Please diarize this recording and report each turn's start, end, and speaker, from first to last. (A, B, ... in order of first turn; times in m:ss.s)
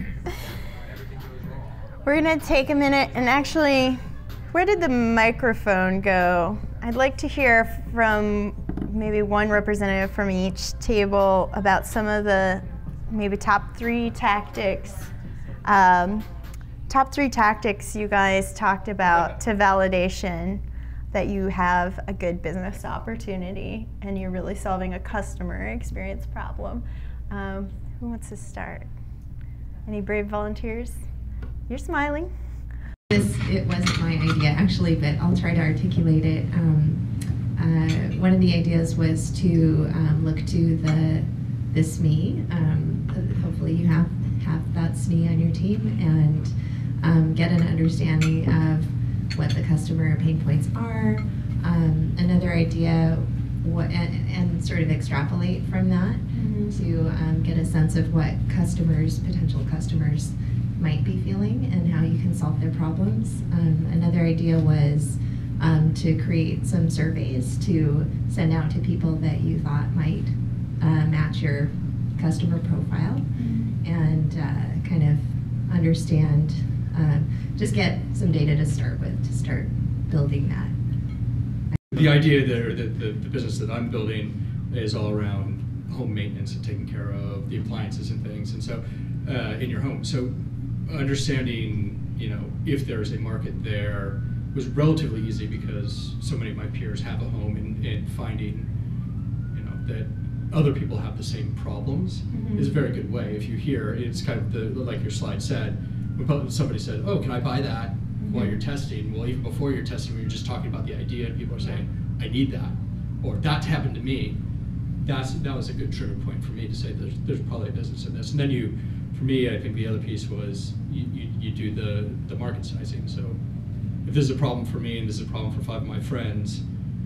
0:02.0-0:04.0 A
0:04.5-0:15.1 A
0:15.6-0:16.3 A
0:16.9-0:28.9 A
0:29.8-0:31.0 A
0:31.7-0:32.3 A
0:33.1-1:20.8 B
0:56.3-0:56.8 A
1:13.4-1:13.7 A
1:21.9-1:38.7 C
1:39.5-1:54.4 C
1:42.3-1:42.7 A
1:48.2-1:48.5 A
1:55.0-2:03.4 C
2:04.0-2:06.6 C